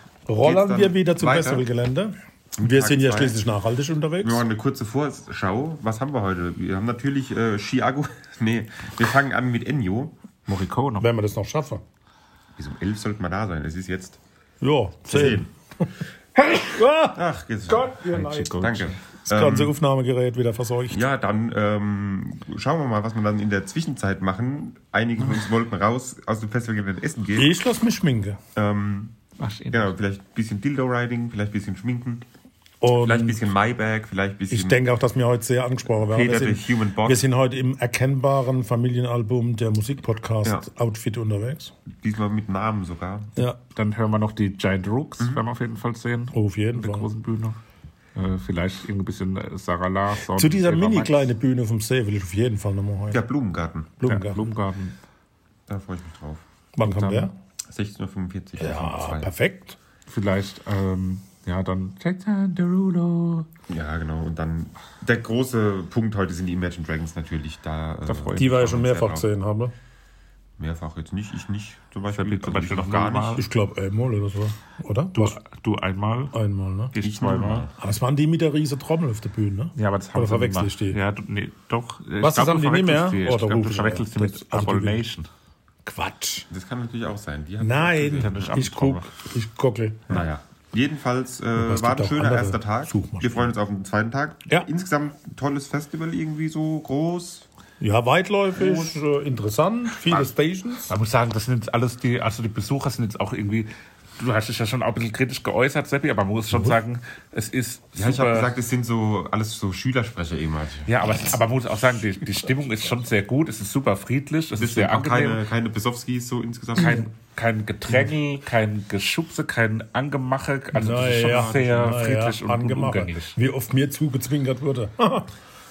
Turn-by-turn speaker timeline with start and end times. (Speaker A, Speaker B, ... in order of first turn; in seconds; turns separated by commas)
Speaker A: 0.3-4.5, Speaker B: 0.4-1.6, Speaker B: 2.6-3.4, Speaker B: 4.2-10.1, Speaker C: 10.5-11.1, Speaker A: 11.0-11.8, Speaker B: 12.6-14.2, Speaker A: 14.6-18.8, Speaker B: 15.1-15.4, Speaker B: 17.1-18.0, Speaker C: 18.0-19.0, Speaker B: 18.6-19.7, Speaker A: 19.3-21.0, Speaker B: 20.9-27.5, Speaker A: 27.4-28.4, Speaker B: 28.6-29.1, Speaker C: 29.4-29.9, Speaker B: 29.7-32.2, Speaker A: 32.8-33.4, Speaker B: 33.0-34.8, Speaker A: 34.5-41.7, Speaker B: 36.0-37.2, Speaker B: 42.0-43.3, Speaker C: 43.8-47.6, Speaker A: 46.3-47.1, Speaker C: 48.2-51.1, Speaker A: 50.3-53.2, Speaker B: 53.1-53.9, Speaker A: 54.0-54.5, Speaker C: 54.0-55.0, Speaker B: 55.7-56.4, Speaker A: 56.8-57.4, Speaker C: 56.8-57.3, Speaker B: 57.7-59.3, Speaker A: 58.6-59.8, Speaker C: 60.1-63.5, Speaker B: 63.7-69.3, Speaker C: 68.1-68.8, Speaker A: 68.4-69.7, Speaker B: 70.6-73.5, Speaker C: 72.1-73.5, Speaker A: 73.3-75.4, Speaker C: 75.1-76.3, Speaker A: 76.3-77.0, Speaker C: 76.9-77.7, Speaker B: 77.0-77.7, Speaker A: 77.8-81.0, Speaker C: 79.8-85.3, Speaker A: 82.2-85.0, Speaker A: 85.8-86.5, Speaker B: 86.5-88.5, Speaker A: 87.6-90.2, Speaker C: 88.2-89.1, Speaker B: 90.1-97.5, Speaker A: 91.6-93.5, Speaker A: 97.8-101.0, Speaker C: 100.9-108.5, Speaker B: 108.0-111.2, Speaker C: 110.9-115.4, Speaker B: 114.6-117.0, Speaker C: 116.8-123.4, Speaker A: 116.8-117.1, Speaker A: 120.7-125.3, Speaker B: 121.1-121.7